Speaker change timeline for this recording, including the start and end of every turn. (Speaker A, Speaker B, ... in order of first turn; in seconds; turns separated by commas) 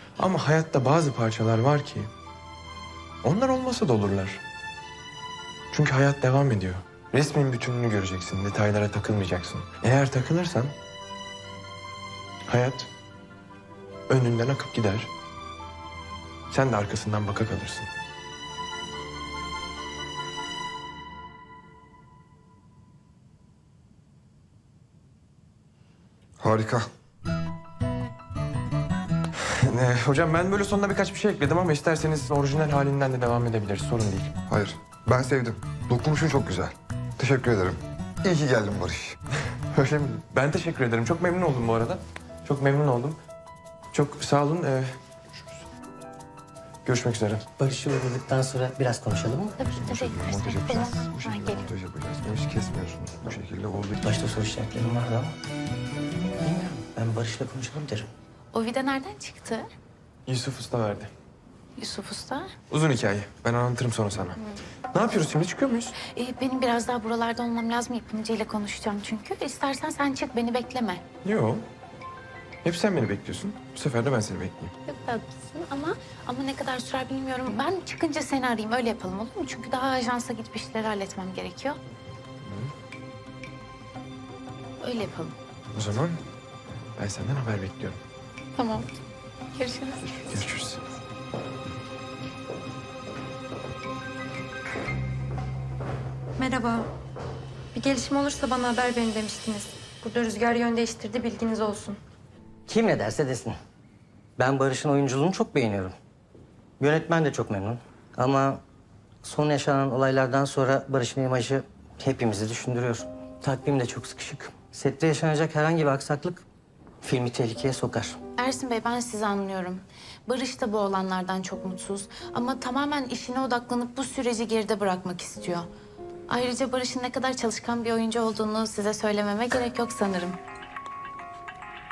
Speaker A: 0.2-2.1, Speaker A: 3.2-4.4, Speaker A: 5.7-10.7, Speaker A: 12.5-12.9, Speaker A: 14.1-15.1, Speaker A: 16.5-17.9, Speaker B: 26.4-26.9, Speaker A: 29.6-34.3, Speaker B: 34.5-39.2, Speaker A: 39.8-43.2, Speaker A: 43.9-45.0, Speaker A: 46.9-47.5, Speaker C: 47.6-49.6, Speaker D: 49.6-51.6, Speaker B: 49.7-54.0, Speaker C: 54.0-55.4, Speaker C: 56.4-58.1, Speaker D: 58.5-59.7, Speaker A: 60.3-61.1, Speaker D: 61.8-62.5, Speaker A: 62.7-64.4, Speaker A: 64.9-66.0, Speaker D: 66.0-71.0, Speaker A: 71.2-71.6, Speaker A: 72.6-74.7, Speaker D: 74.9-81.8, Speaker A: 82.5-82.7, Speaker D: 84.8-85.4, Speaker A: 85.7-86.2, Speaker A: 87.0-88.0, Speaker D: 88.6-88.8, Speaker D: 89.5-90.0, Speaker A: 90.1-90.8, Speaker E: 96.4-96.9, Speaker E: 97.7-102.0, Speaker C: 102.7-103.6, Speaker C: 104.4-105.9, Speaker C: 106.8-108.6, Speaker C: 109.2-116.5, Speaker C: 117.0-118.2, Speaker D: 118.4-125.7, Speaker D: 126.3-130.4